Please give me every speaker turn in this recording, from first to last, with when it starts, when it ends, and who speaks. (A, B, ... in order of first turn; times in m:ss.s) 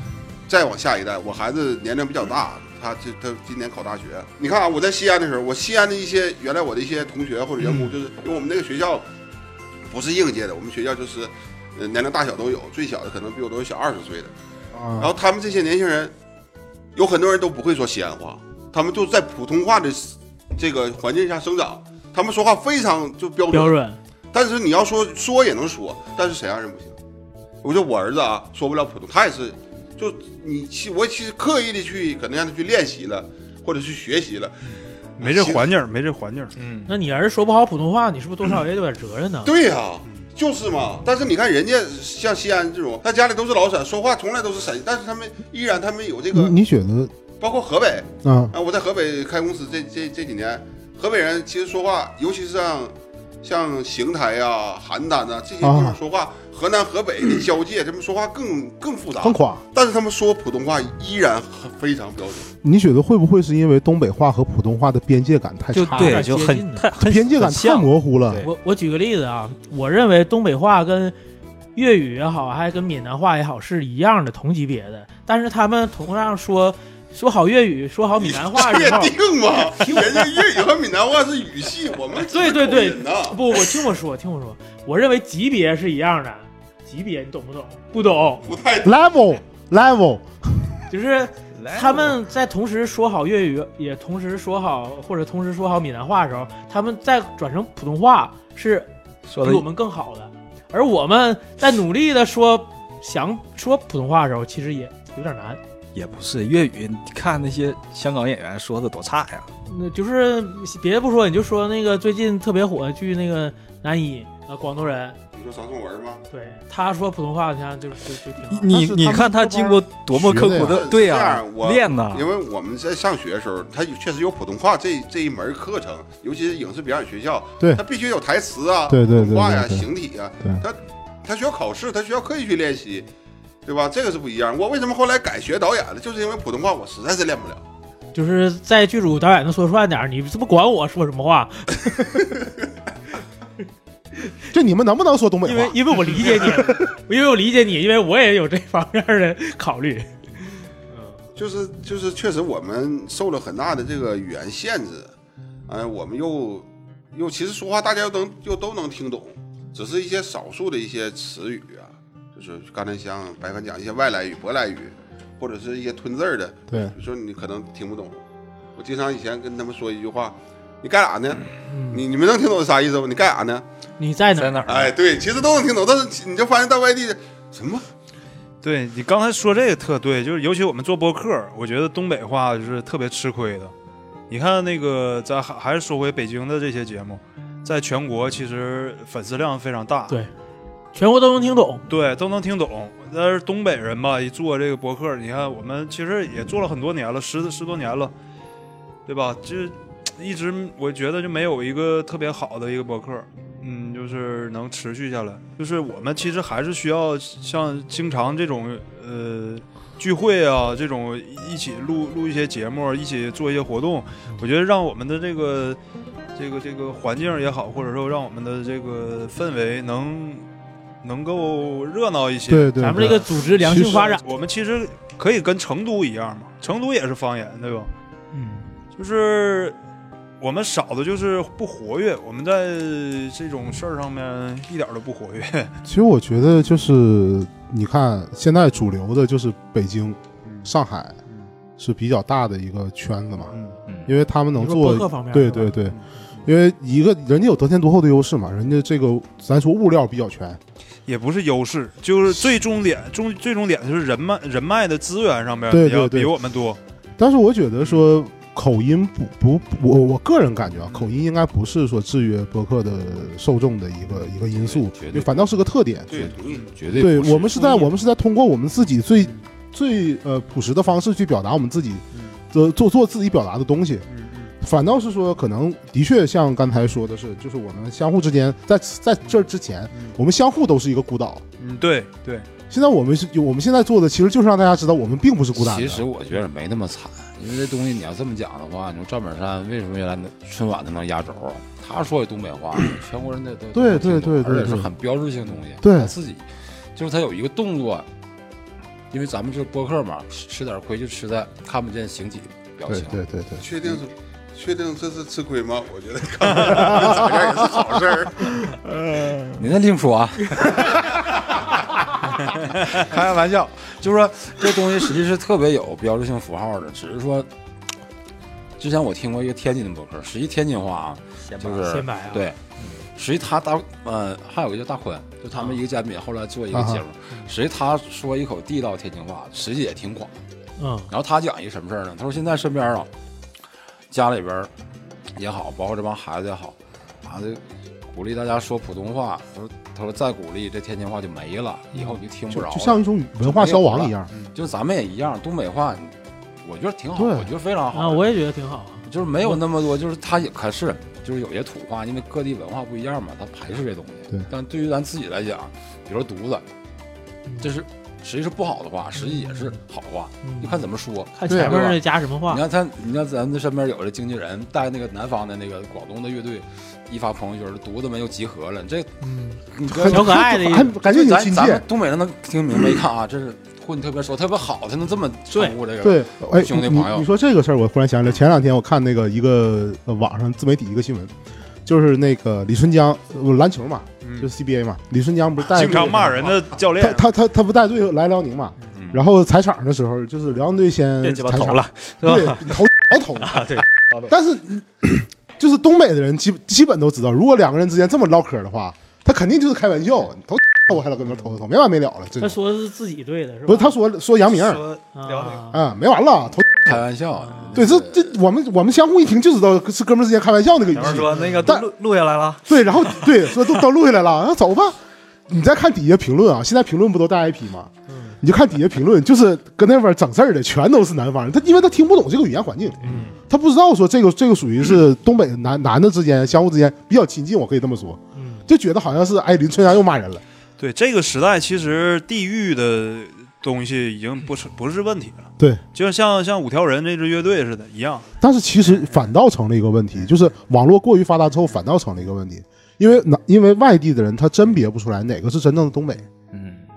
0:00.5-0:09.1 A
0:09.9-0:14.3 A
0:14.7-0:15.1 B
0:15.0-0:16.1 A
0:17.0-0:23.8 A
0:23.5-0:24.0 C
0:24.3-0:27.0 A
0:27.6-0:35.7 A
0:34.7-0:36.9 D
0:36.9-0:39.5 C
0:39.4-0:46.6 A
0:46.3-0:47.1 B
0:47.4-1:02.5 A
0:48.2-0:48.5 B
0:55.6-0:56.0 B
0:59.2-0:59.6 B
1:02.6-1:06.2 B
1:05.7-1:08.5 E
1:05.9-1:06.8 C
1:07.0-1:08.4 B
1:08.4-1:11.2 C
1:11.8-1:19.2 C
1:18.2-1:23.6 A
1:19.7-1:20.4 C
1:22.2-1:28.5 C
1:28.4-1:29.0 A
1:28.8-1:30.7 B
1:30.9-1:38.9 C
1:31.6-1:32.2 E
1:39.3-1:39.7 E
1:39.4-1:45.6 C
1:46.0-1:49.5 E
1:49.7-1:55.2 C
1:55.3-1:56.2 A
1:56.3-1:58.7 C
1:58.5-2:02.3 E
1:58.7-2:00.8 B
2:00.5-2:13.1 A
2:08.9-2:09.9 B
2:13.7-2:17.6 A
2:18.1-2:22.3 C
2:24.5-2:26.6 B
2:25.4-2:30.1 C
2:31.4-2:35.1 A
2:35.7-2:48.2 A
2:46.7-2:47.0 B
2:48.8-2:53.6 A
2:51.7-2:52.0 C
2:54.0-2:54.6 C
2:54.7-2:57.8 A
2:58.6-3:03.7 D
3:04.3-3:10.2 D
3:10.9-3:11.8 C
3:11.9-3:18.1 D
3:19.1-3:35.8 D
3:36.4-3:40.5 D
3:41.0-3:47.9 D
3:42.5-3:44.0 B
3:42.8-3:44.2 C
3:48.3-3:48.7 C
3:48.9-3:49.8 D
3:50.4-3:55.8 D
3:55.8-4:01.2 B
4:00.5-4:00.7 D
4:01.8-4:03.6 B
4:03.5-4:03.8 D
4:03.9-4:04.2 E
4:04.1-4:10.6 B
4:04.6-4:05.8 C
4:11.1-4:16.8 D
4:15.7-4:16.4 B
4:17.2-4:26.4 B
4:24.6-4:25.4 F
4:26.1-4:26.7 A
4:26.6-4:27.8 F
4:26.9-4:34.1 B
4:34.1-4:34.5 D
4:34.6-4:41.4 B
4:41.6-4:42.5 D
4:42.7-4:46.0 B
4:45.6-4:58.1 F
4:53.7-4:54.9 B
4:55.8-4:56.1 B
4:59.1-5:03.2 F
5:02.9-5:03.6 B
5:03.6-5:08.6 A
5:06.6-5:06.8 D
5:06.9-5:07.2 B
5:09.5-5:11.0 F
5:12.9-5:17.5 F
5:18.8-5:30.4 F
5:21.5-5:21.8 E
5:21.7-5:22.5 C
5:26.7-5:27.0 B
5:30.8-5:31.1 C
5:31.1-5:33.1 F
5:34.1-5:34.7 F
5:35.3-5:48.3 F
5:42.5-5:44.3 B
5:47.2-5:47.5 B
5:47.9-5:49.6 C
5:49.1-5:56.6 F
5:57.6-6:09.1 F
5:59.2-5:59.7 C
6:00.4-6:02.6 C
6:01.5-6:01.8 B
6:09.2-6:10.9 C
6:09.7-6:10.4 F
6:09.9-6:11.8 B
6:11.0-6:17.3 F
6:15.5-6:15.8 C
6:16.0-6:21.3 B
6:21.8-6:33.7 B
6:24.2-6:24.5 D
6:25.6-6:27.3 D
6:29.0-6:29.2 F
6:31.2-6:32.8 E
6:33.4-6:33.8 E
6:34.3-6:42.6 B
6:42.4-6:44.0 C
6:43.7-6:44.8 B
6:44.6-6:45.7 E
6:45.2-6:45.8 C
6:45.7-6:47.0 B
6:46.8-6:48.4 F
6:47.8-6:51.9 B
6:50.9-6:53.8 E
6:52.6-6:55.0 B
6:55.5-7:10.4 B
6:58.1-6:58.4 C
7:03.0-7:03.3 C
7:08.4-7:08.7 C
7:10.8-7:18.3 D
7:18.4-7:26.3 B
7:18.8-7:19.3 D
7:26.5-7:26.9 E